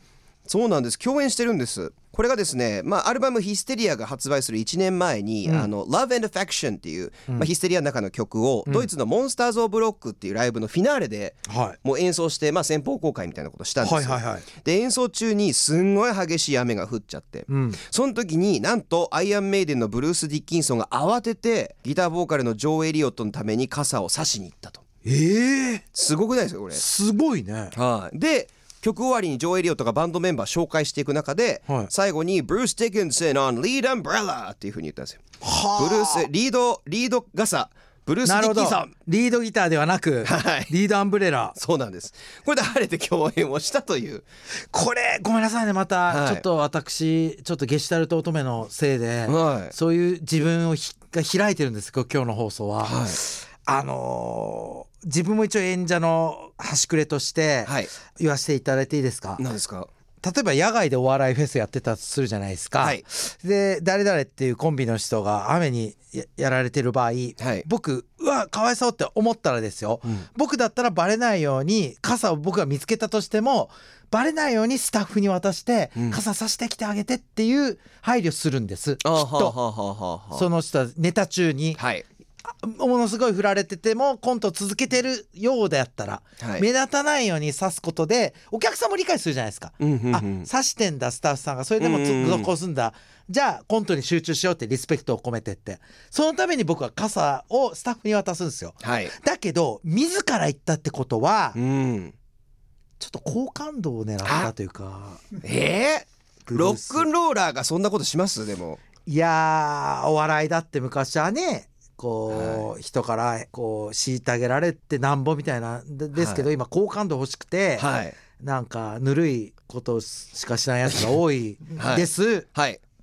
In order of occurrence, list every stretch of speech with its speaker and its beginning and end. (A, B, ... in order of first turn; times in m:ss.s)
0:00.5-0:24.8 A
0:11.5-0:11.8 B
0:13.8-0:14.5 B
0:17.5-0:17.8 B
0:25.0-0:25.8 B
0:25.9-0:26.8 A
0:26.7-0:27.8 B
0:27.7-0:35.2 A
0:35.4-0:36.3 B
0:35.8-0:38.9 A
0:38.2-0:41.6 B
0:40.2-0:40.7 A
0:41.6-0:44.2 A
0:44.7-0:59.4 B
0:46.1-0:46.5 A
0:49.3-0:49.8 A
0:52.8-0:53.2 A
0:57.7-0:57.9 A
0:59.4-0:59.9 A
1:00.2-1:19.6 B
1:07.4-1:07.7 A
1:19.0-1:20.5 A
1:20.3-1:21.8 B
1:21.8-1:22.1 A
1:22.6-1:41.6 B
1:26.4-1:26.6 A
1:29.8-1:30.5 A
1:31.8-1:32.5 A
1:38.8-1:39.1 A
1:41.6-1:42.2 A
1:43.0-1:45.2 B
1:44.2-1:44.5 A
1:45.4-1:48.8 A
1:46.5-1:47.1 B
1:49.1-2:02.5 B
1:52.3-1:52.7 A
1:56.2-1:56.5 A
1:57.8-1:58.2 A
2:01.8-2:02.8 A